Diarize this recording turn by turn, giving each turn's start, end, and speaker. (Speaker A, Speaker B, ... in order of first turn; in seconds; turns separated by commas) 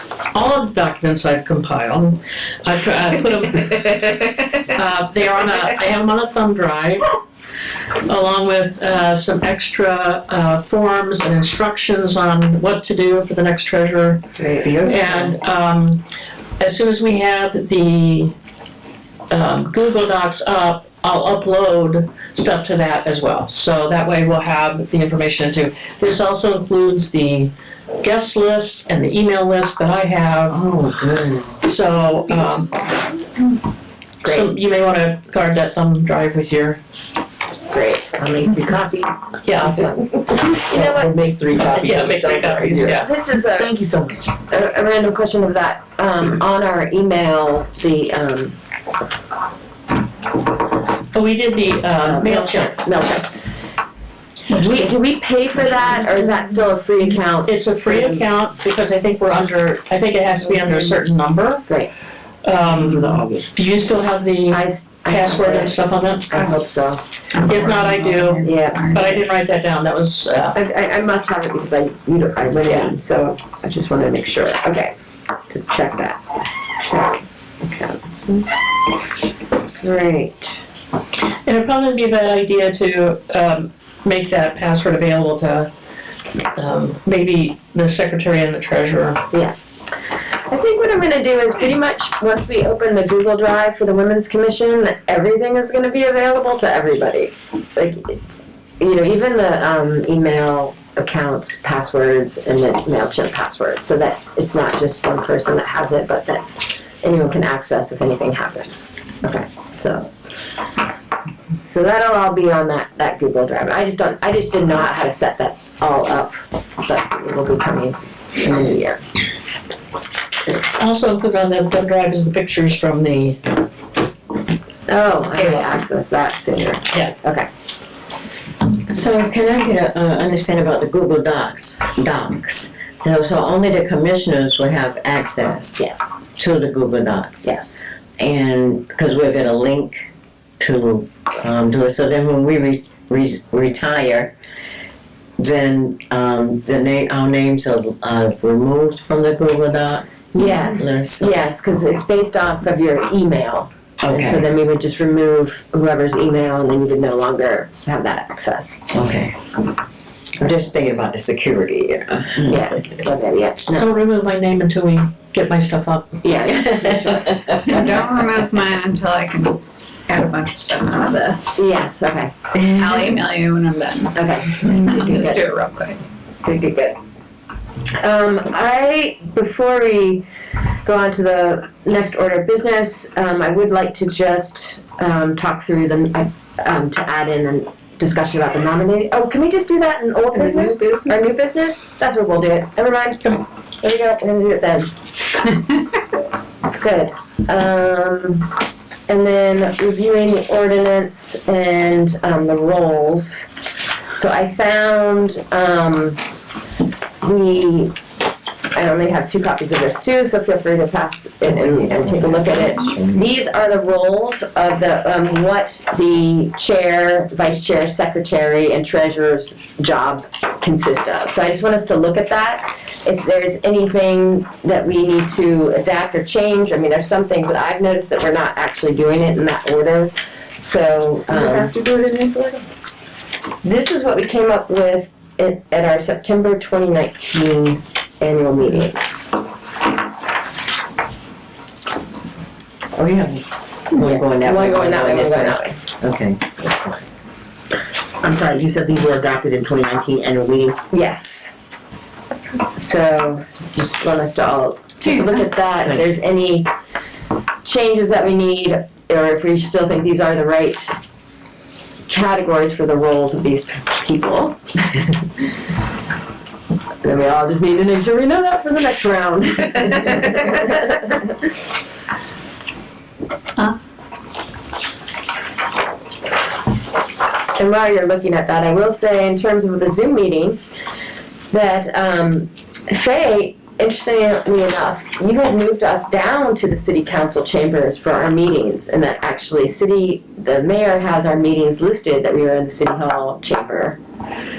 Speaker A: 0.3-7.2, Speaker A: 8.0-14.2, Speaker B: 14.4-14.9, Speaker A: 14.8-16.0, Speaker A: 16.6-18.3, Speaker A: 19.3-30.6, Speaker C: 30.5-31.6, Speaker A: 31.6-32.8, Speaker A: 34.2-36.8, Speaker B: 34.2-34.5, Speaker B: 37.7-41.1, Speaker A: 39.4-39.8, Speaker D: 40.7-43.0, Speaker A: 41.8-43.1, Speaker B: 42.8-43.7, Speaker D: 43.6-44.2, Speaker B: 44.5-48.6, Speaker A: 51.1-52.8, Speaker B: 52.0-53.3, Speaker B: 54.5-58.3, Speaker A: 57.5-61.7, Speaker A: 62.4-66.4, Speaker D: 62.8-63.2, Speaker B: 64.5-67.0, Speaker E: 67.3-69.2, Speaker A: 67.4-70.6, Speaker B: 68.4-69.1, Speaker B: 70.5-74.9, Speaker B: 75.5-78.5, Speaker B: 79.8-80.6, Speaker A: 81.5-85.7, Speaker A: 86.5-89.2, Speaker B: 90.5-98.2, Speaker B: 98.8-110.1, Speaker B: 111.6-119.0, Speaker A: 120.6-123.6, Speaker B: 124.9-127.5, Speaker C: 128.9-137.5, Speaker B: 135.8-136.1, Speaker B: 137.4-137.8, Speaker C: 138.2-140.1, Speaker C: 140.6-144.3, Speaker C: 145.4-150.1, Speaker B: 150.3-158.9, Speaker C: 150.6-151.3, Speaker C: 154.0-154.4, Speaker C: 158.9-159.4, Speaker C: 160.4-162.6, Speaker B: 162.4-163.9, Speaker A: 163.7-166.2, Speaker B: 166.2-167.8, Speaker C: 166.7-167.4, Speaker E: 167.7-171.7, Speaker B: 171.6-172.3, Speaker E: 172.6-176.0, Speaker C: 172.8-173.1, Speaker B: 174.1-175.4, Speaker B: 176.4-177.0, Speaker B: 178.0-180.2, Speaker B: 180.8-194.9, Speaker B: 196.7-198.5, Speaker B: 199.1-203.5, Speaker B: 204.1-206.2, Speaker B: 207.2-208.0, Speaker B: 208.7-231.7, Speaker C: 211.5-213.2, Speaker D: 231.3-232.6, Speaker B: 233.6-239.1, Speaker C: 242.9-247.0, Speaker B: 243.9-245.8, Speaker D: 248.2-250.7, Speaker B: 250.9-251.5, Speaker B: 252.7-256.7, Speaker B: 257.6-260.9, Speaker B: 262.1-265.2, Speaker B: 267.0-271.5, Speaker B: 277.5-280.6, Speaker B: 281.5-294.0